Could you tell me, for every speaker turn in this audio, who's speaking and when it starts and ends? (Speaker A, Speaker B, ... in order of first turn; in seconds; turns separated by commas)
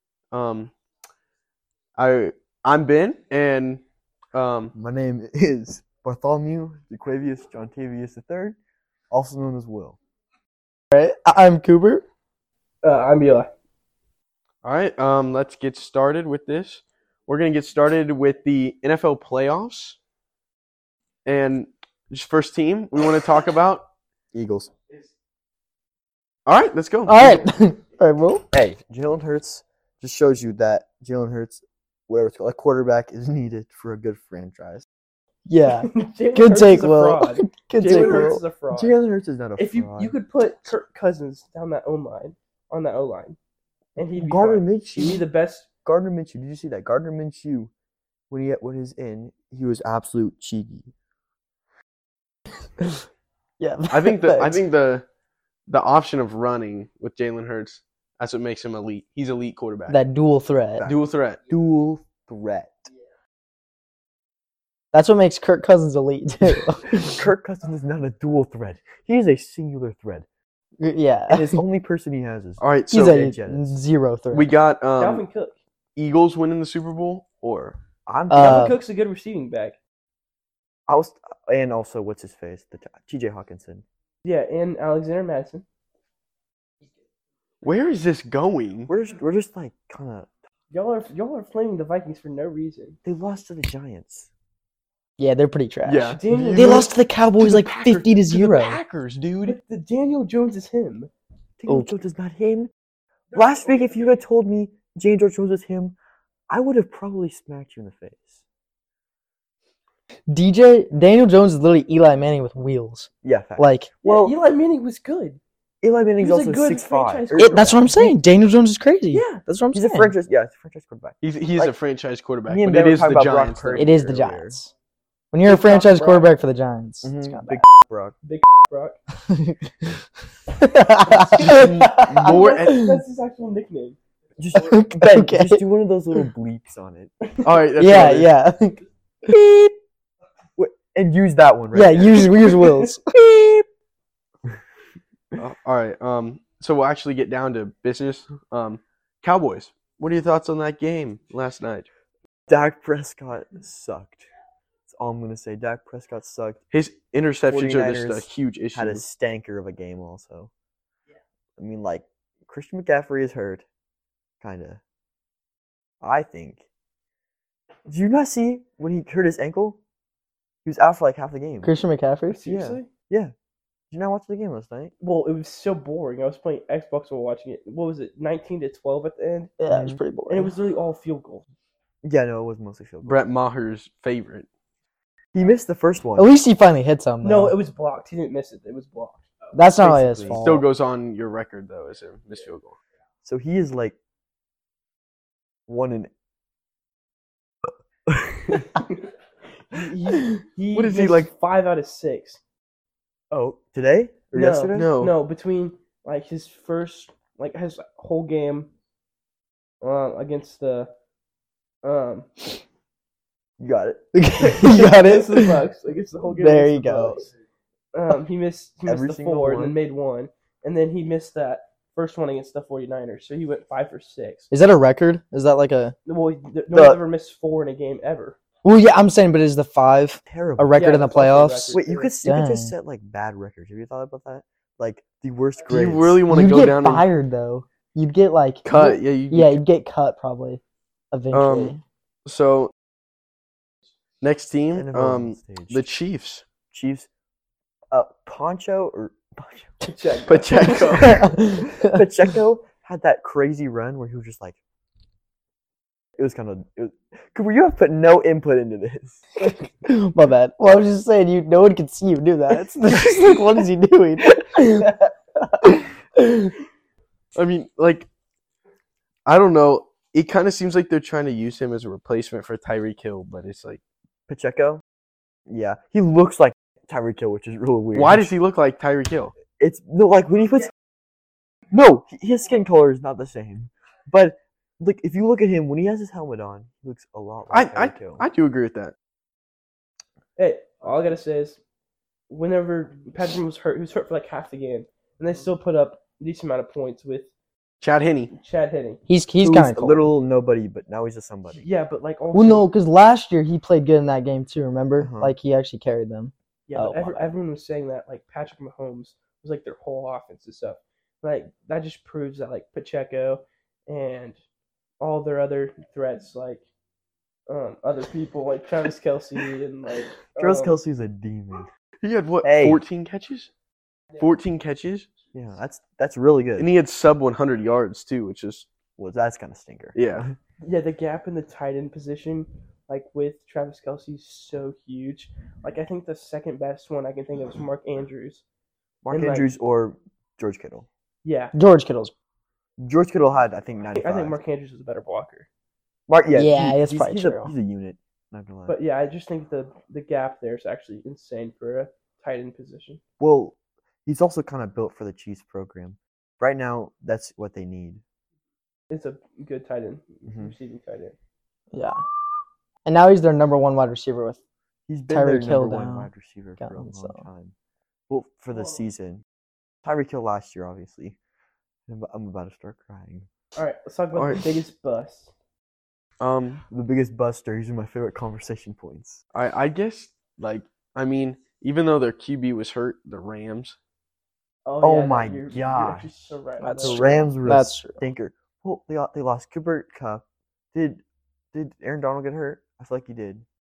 Speaker A: 0.3-0.7, Speaker A: 2.0-4.7, Speaker B: 4.7-8.6, Speaker B: 9.1-10.0, Speaker C: 10.9-12.0, Speaker D: 12.8-13.5, Speaker A: 14.6-20.0, Speaker A: 21.2-23.9, Speaker B: 24.3-24.7, Speaker A: 26.4-27.4, Speaker C: 27.1-28.4, Speaker B: 28.5-34.9, Speaker C: 35.5-38.4, Speaker D: 35.7-39.0, Speaker B: 37.9-40.1, Speaker D: 39.6-43.4, Speaker D: 44.0-45.7, Speaker B: 44.2-45.2, Speaker B: 45.8-47.7, Speaker B: 48.3-50.9, Speaker C: 53.6-54.6, Speaker A: 53.9-55.0, Speaker A: 55.7-60.0, Speaker C: 59.9-60.9, Speaker A: 60.8-61.4, Speaker B: 61.5-62.9, Speaker C: 64.9-67.2, Speaker B: 66.9-70.2, Speaker C: 70.8-71.6, Speaker B: 71.3-73.8, Speaker A: 72.6-73.2, Speaker C: 72.9-74.5, Speaker A: 74.3-75.2, Speaker D: 75.0-75.5, Speaker A: 76.0-77.8, Speaker B: 78.1-78.7, Speaker C: 78.3-78.8, Speaker D: 78.3-79.8, Speaker B: 80.9-83.8, Speaker D: 84.2-85.6, Speaker A: 87.6-88.9, Speaker B: 88.9-90.3, Speaker D: 90.7-93.0, Speaker B: 93.0-94.3, Speaker C: 95.2-98.8, Speaker A: 95.8-99.6, Speaker D: 96.1-96.9, Speaker D: 99.4-101.1, Speaker B: 101.6-102.7, Speaker C: 101.7-101.9, Speaker B: 103.3-106.0, Speaker B: 106.5-108.4, Speaker C: 110.3-113.9, Speaker B: 113.2-114.3, Speaker D: 114.0-115.4, Speaker B: 115.8-117.8, Speaker D: 116.2-118.2, Speaker C: 117.3-120.1, Speaker D: 119.1-119.4, Speaker B: 119.7-121.7, Speaker A: 121.2-124.0, Speaker B: 122.5-124.5, Speaker C: 123.8-124.7, Speaker C: 125.3-127.6, Speaker D: 125.4-126.3, Speaker B: 127.0-128.1, Speaker D: 128.2-129.0, Speaker C: 129.3-133.0, Speaker A: 131.3-132.8, Speaker D: 132.2-134.0, Speaker B: 134.4-137.1, Speaker C: 134.6-135.6, Speaker D: 137.2-137.5, Speaker A: 137.4-138.3, Speaker C: 137.8-139.7, Speaker B: 140.6-142.3, Speaker C: 141.7-143.6, Speaker D: 142.2-142.8, Speaker A: 145.4-151.9, Speaker B: 152.5-154.2, Speaker B: 154.9-156.6, Speaker A: 156.7-159.0, Speaker B: 157.5-160.5, Speaker B: 161.6-163.6, Speaker B: 164.4-164.8, Speaker B: 166.0-166.7, Speaker B: 167.9-169.8, Speaker B: 170.6-171.7, Speaker C: 171.6-172.4, Speaker D: 172.3-172.9, Speaker B: 172.4-173.3, Speaker B: 173.9-174.9, Speaker D: 175.0-179.5, Speaker C: 179.6-180.5, Speaker B: 179.7-180.0, Speaker D: 180.3-181.4, Speaker B: 182.0-183.2, Speaker A: 183.0-184.5, Speaker B: 185.3-186.3, Speaker C: 186.2-187.5, Speaker D: 187.2-189.3, Speaker C: 189.5-190.6, Speaker B: 189.8-190.5, Speaker A: 190.4-192.8, Speaker B: 193.2-193.9, Speaker B: 195.7-196.1, Speaker B: 198.1-198.7, Speaker D: 199.7-202.4, Speaker A: 200.7-201.3, Speaker B: 203.3-204.9, Speaker D: 204.3-208.7, Speaker A: 204.7-205.1, Speaker D: 209.8-210.9, Speaker D: 211.8-212.4, Speaker B: 213.6-214.0, Speaker C: 214.1-215.6, Speaker D: 214.4-217.3, Speaker C: 216.3-217.2, Speaker D: 217.9-224.5, Speaker B: 218.8-219.7, Speaker C: 224.5-225.9, Speaker D: 226.1-228.4, Speaker B: 226.7-227.0, Speaker C: 228.6-232.7, Speaker B: 230.3-230.8, Speaker D: 230.7-232.1, Speaker B: 231.7-236.2, Speaker A: 235.7-237.1, Speaker C: 236.3-240.6, Speaker A: 238.6-239.6, Speaker C: 241.1-241.8, Speaker A: 241.3-241.7, Speaker A: 242.2-242.7, Speaker A: 244.2-246.4, Speaker B: 244.7-245.8, Speaker B: 246.7-247.1, Speaker B: 247.9-254.6, Speaker A: 250.2-251.2, Speaker C: 250.6-252.0, Speaker B: 256.2-259.2, Speaker C: 259.4-266.5, Speaker A: 267.3-268.1, Speaker A: 269.2-273.8, Speaker B: 274.3-274.8, Speaker B: 275.5-278.3, Speaker A: 277.9-279.3, Speaker B: 279.6-280.7, Speaker B: 281.7-288.2, Speaker A: 287.5-288.9, Speaker D: 290.4-291.6, Speaker D: 292.3-297.3, Speaker A: 297.8-298.3, Speaker D: 298.3-299.0, Speaker C: 299.1-300.1, Speaker B: 299.4-301.6, Speaker D: 301.5-302.7, Speaker C: 302.3-307.3, Speaker B: 305.0-305.3, Speaker D: 306.7-314.4, Speaker D: 315.0-316.6, Speaker D: 317.5-320.7, Speaker B: 320.4-321.7, Speaker A: 322.0-323.5, Speaker B: 322.4-322.8, Speaker A: 324.2-325.1, Speaker B: 325.3-326.7, Speaker A: 326.6-328.7, Speaker B: 329.0-330.3, Speaker A: 329.9-330.3, Speaker D: 330.6-338.4, Speaker B: 339.0-340.9, Speaker D: 339.1-339.5, Speaker D: 341.2-341.5, Speaker C: 341.5-342.1, Speaker B: 342.8-344.4, Speaker D: 343.9-345.5, Speaker B: 346.1-348.8, Speaker C: 346.3-347.5, Speaker D: 348.7-353.0, Speaker B: 353.2-358.0, Speaker D: 358.9-361.1, Speaker B: 360.3-360.5, Speaker C: 361.7-362.0, Speaker C: 362.8-364.4, Speaker B: 364.9-367.5, Speaker C: 365.1-367.2, Speaker B: 368.1-369.2, Speaker B: 369.8-371.2, Speaker B: 371.9-373.3, Speaker D: 373.5-375.3, Speaker A: 374.1-374.4, Speaker A: 376.2-376.6, Speaker B: 376.7-379.2, Speaker A: 379.3-383.8, Speaker D: 384.6-387.3, Speaker B: 384.8-386.1, Speaker C: 386.6-388.0, Speaker B: 386.8-391.0, Speaker B: 391.5-393.4